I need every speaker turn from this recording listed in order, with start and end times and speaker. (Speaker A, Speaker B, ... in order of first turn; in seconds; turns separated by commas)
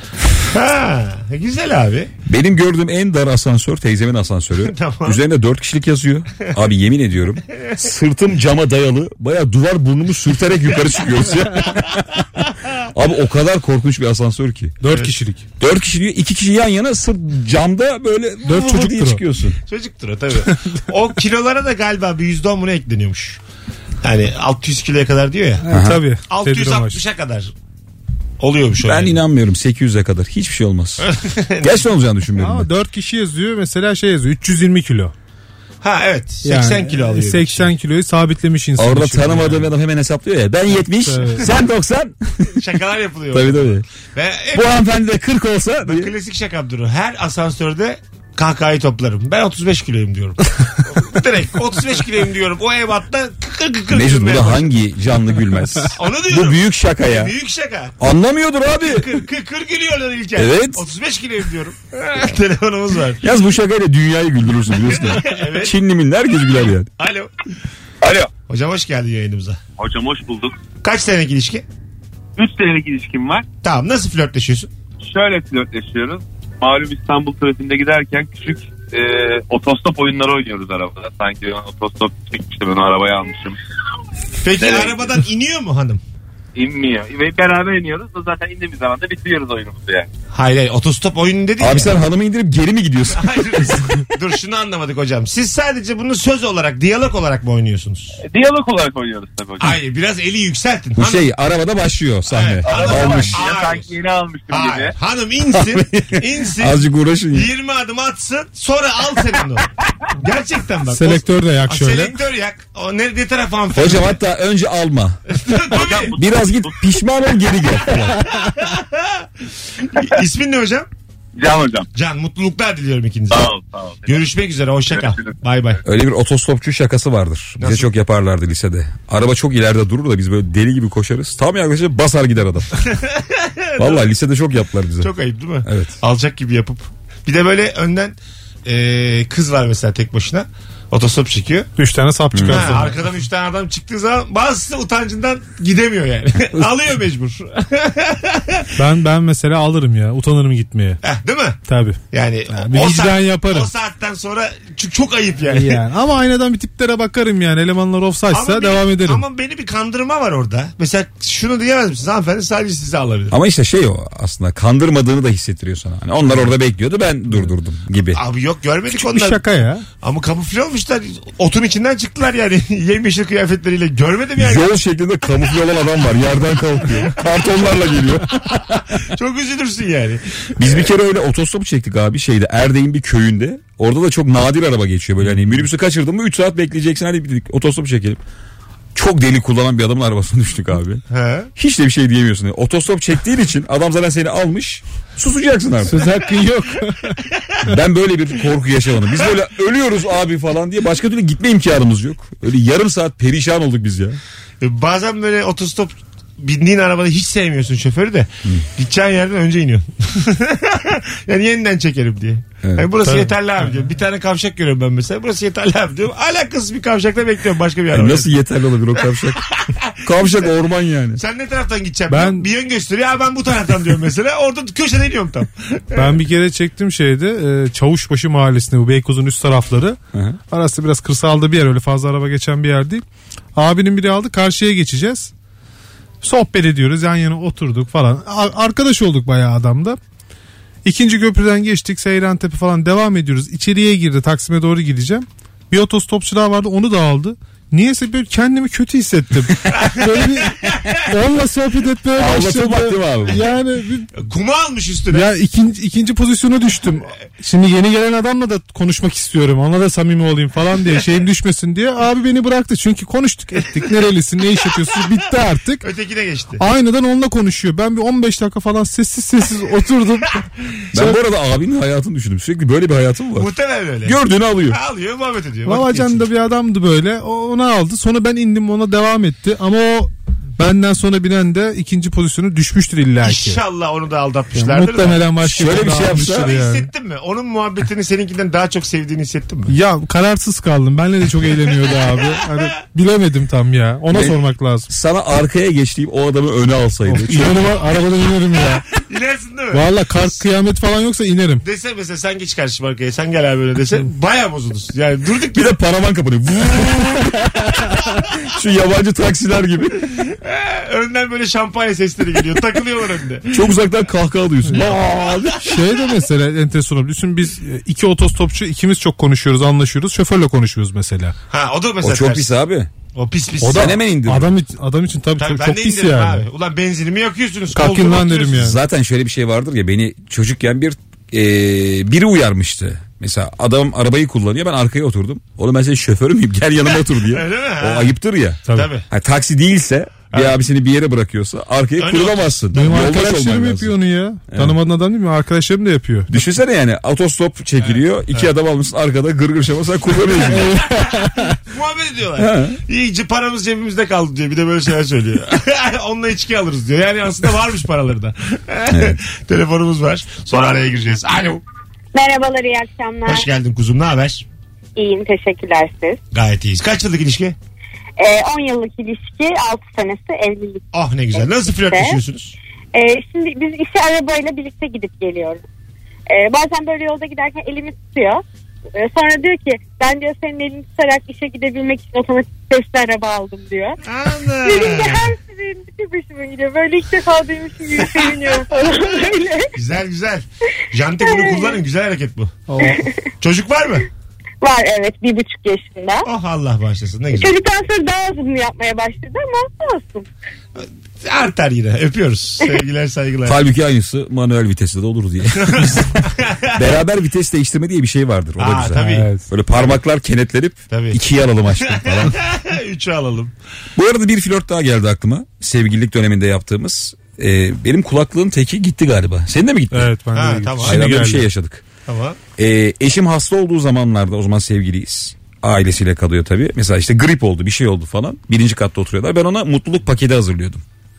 Speaker A: 0.5-2.1, Speaker B: 2.2-12.2, Speaker A: 4.6-5.2, Speaker B: 12.9-14.8, Speaker C: 14.8-15.4, Speaker B: 15.6-19.6, Speaker C: 18.4-19.2, Speaker A: 19.7-23.4, Speaker A: 24.0-25.6, Speaker C: 25.6-27.0, Speaker B: 25.7-26.0, Speaker A: 26.3-27.5, Speaker A: 28.4-29.2, Speaker B: 28.8-31.1, Speaker A: 31.0-31.8, Speaker B: 31.6-32.7, Speaker C: 32.4-35.1, Speaker A: 35.8-37.7, Speaker C: 36.4-39.7, Speaker B: 38.8-42.6, Speaker C: 41.0-41.5, Speaker A: 42.6-44.8, Speaker B: 43.3-43.8, Speaker B: 44.5-46.1, Speaker A: 45.8-54.8, Speaker B: 53.9-57.3, Speaker A: 55.9-58.0, Speaker B: 58.0-59.1, Speaker A: 58.8-63.2, Speaker B: 60.4-60.8, Speaker B: 63.2-66.9, Speaker A: 64.9-65.7, Speaker A: 67.0-67.3, Speaker D: 68.0-68.3, Speaker A: 68.5-69.6, Speaker D: 69.8-70.6, Speaker A: 70.8-71.6, Speaker D: 72.4-73.5, Speaker A: 73.6-74.7, Speaker D: 75.0-83.6, Speaker A: 84.4-86.0, Speaker D: 84.6-85.2, Speaker D: 86.5-90.1, Speaker A: 90.3-91.9, Speaker B: 91.6-94.0, Speaker A: 93.1-98.2, Speaker D: 98.2-99.8, Speaker A: 99.6-101.3, Speaker B: 101.0-103.4, Speaker A: 102.3-103.9, Speaker D: 102.7-104.9, Speaker A: 104.5-114.2, Speaker B: 105.5-107.5, Speaker C: 110.9-112.2, Speaker B: 113.7-115.2, Speaker A: 115.3-116.2, Speaker D: 115.7-116.8, Speaker B: 115.8-118.3, Speaker A: 118.2-119.2, Speaker A: 119.8-120.9, Speaker D: 121.4-121.9, Speaker A: 121.9-123.5, Speaker D: 123.3-124.2, Speaker A: 124.0-125.8, Speaker D: 124.9-125.3, Speaker B: 125.8-132.8, Speaker A: 127.6-127.9, Speaker A: 132.8-134.1, Speaker B: 133.8-135.1, Speaker A: 135.0-141.7, Speaker B: 135.6-135.9, Speaker C: 141.8-143.0, Speaker B: 142.3-142.8, Speaker A: 142.5-148.7, Speaker C: 148.8-151.0, Speaker A: 151.0-155.8, Speaker C: 151.7-152.0, Speaker C: 152.5-153.7, Speaker C: 155.5-159.2, Speaker A: 158.3-163.4, Speaker B: 163.3-168.2, Speaker A: 168.1-169.4, Speaker C: 168.9-169.8, Speaker A: 170.0-174.7, Speaker B: 174.4-178.6, Speaker A: 177.0-177.5, Speaker A: 178.4-180.9, Speaker B: 180.6-188.2, Speaker B: 188.9-191.0, Speaker A: 191.1-191.5, Speaker B: 191.6-196.1, Speaker C: 195.8-197.2, Speaker B: 197.6-204.2, Speaker A: 204.6-218.3, Speaker B: 212.6-212.9, Speaker C: 213.0-213.3, Speaker B: 217.9-219.4, Speaker A: 218.9-220.5, Speaker B: 220.0-221.2, Speaker A: 221.2-226.2, Speaker C: 222.1-222.4, Speaker C: 225.9-230.0, Speaker C: 230.5-233.0, Speaker C: 233.5-235.3, Speaker C: 236.2-240.0, Speaker C: 240.8-254.1, Speaker A: 249.7-251.0, Speaker B: 252.1-253.4, Speaker A: 254.2-255.3, Speaker C: 255.1-265.8, Speaker A: 265.8-266.6, Speaker C: 266.6-271.2, Speaker B: 270.9-273.5, Speaker A: 273.4-276.2, Speaker B: 274.0-274.8, Speaker C: 275.6-283.6, Speaker A: 283.2-289.7, Speaker C: 284.5-286.9, Speaker B: 285.4-286.5, Speaker C: 289.7-294.9, Speaker A: 292.0-292.6, Speaker B: 294.1-294.4, Speaker B: 294.9-297.7, Speaker C: 297.1-298.8, Speaker A: 299.0-300.4, Speaker C: 299.7-301.6, Speaker A: 301.6-305.8, Speaker B: 305.5-307.7, Speaker B: 308.5-310.1, Speaker A: 310.3-313.5, Speaker B: 313.5-315.7, Speaker C: 315.6-321.3, Speaker A: 321.5-322.5, Speaker B: 322.0-322.9, Speaker A: 323.1-324.0, Speaker C: 323.6-326.4, Speaker B: 323.7-324.5, Speaker A: 325.4-328.7, Speaker C: 327.7-328.8, Speaker B: 328.5-343.9, Speaker A: 337.0-338.1, Speaker A: 338.7-339.0, Speaker A: 340.3-340.6, Speaker A: 342.0-343.1, Speaker C: 342.7-346.3, Speaker B: 344.5-344.8, Speaker B: 346.3-350.8, Speaker A: 347.8-348.5, Speaker A: 350.3-361.6, Speaker C: 350.5-351.5, Speaker B: 352.4-352.8, Speaker B: 358.9-359.2, Speaker E: 362.1-363.5, Speaker A: 363.2-364.4, Speaker E: 364.9-366.2, Speaker A: 366.3-367.6, Speaker E: 368.2-370.8, Speaker A: 370.9-372.5, Speaker E: 371.3-372.2, Speaker E: 372.9-375.6, Speaker E: 376.3-378.4, Speaker E: 378.9-384.0, Speaker A: 384.0-385.3, Speaker E: 384.6-389.7, Speaker A: 389.7-392.5, Speaker E: 391.2-391.8, Speaker C: 392.7-393.0, Speaker E: 392.8-393.1, Speaker A: 393.4-394.1, Speaker E: 394.6-396.3, Speaker A: 396.2-397.5, Speaker E: 397.3-400.3, Speaker A: 400.8-403.6, Speaker B: 403.4-412.4, Speaker A: 405.6-406.8, Speaker A: 408.6-410.0, Speaker C: 409.0-409.4, Speaker A: 410.9-411.2, Speaker A: 411.7-413.5, Speaker B: 413.9-420.1, Speaker C: 419.9-421.4, Speaker A: 420.3-421.2, Speaker B: 420.8-421.8, Speaker A: 422.1-422.4, Speaker B: 422.6-430.8